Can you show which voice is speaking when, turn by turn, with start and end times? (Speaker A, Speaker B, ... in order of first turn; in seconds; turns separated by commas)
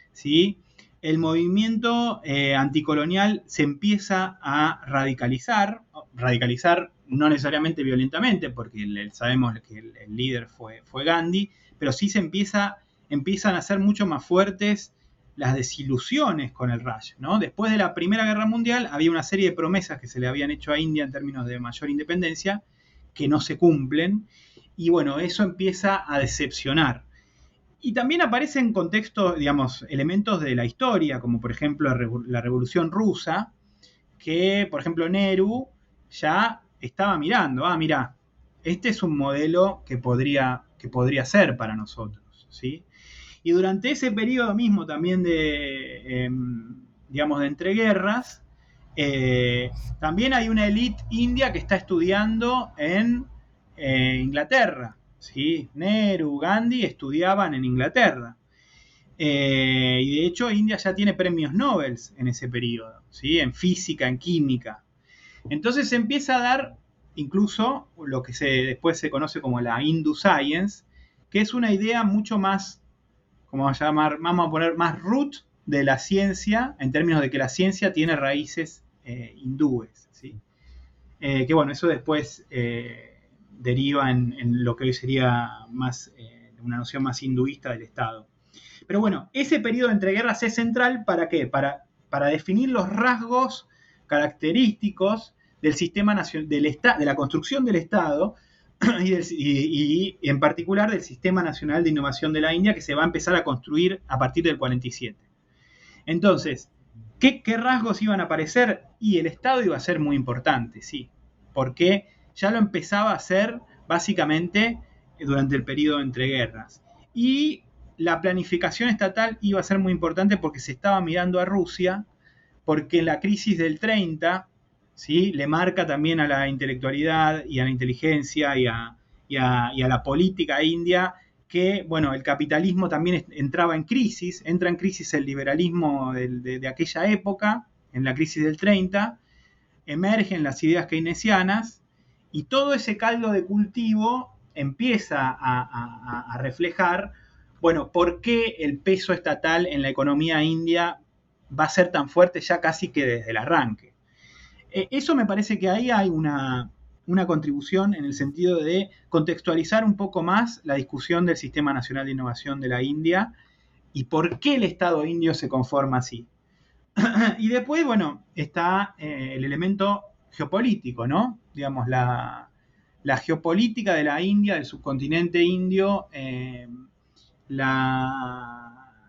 Speaker A: 0.1-22.6, Speaker A: 23.1-27.1, Speaker A: 27.8-33.5, Speaker A: 34.2-42.9, Speaker A: 43.4-48.4, Speaker A: 49.0-58.4, Speaker A: 59.2-64.8, Speaker A: 65.5-72.8, Speaker A: 73.5-80.4, Speaker A: 81.2-88.3, Speaker A: 88.9-105.2, Speaker A: 106.1-122.1, Speaker A: 122.7-139.2, Speaker A: 139.9-141.8, Speaker A: 142.3-151.0, Speaker A: 151.5-153.9, Speaker A: 154.7-163.3, Speaker A: 163.9-166.3, Speaker A: 167.0-172.5, Speaker A: 173.0-176.8, Speaker A: 177.5-178.7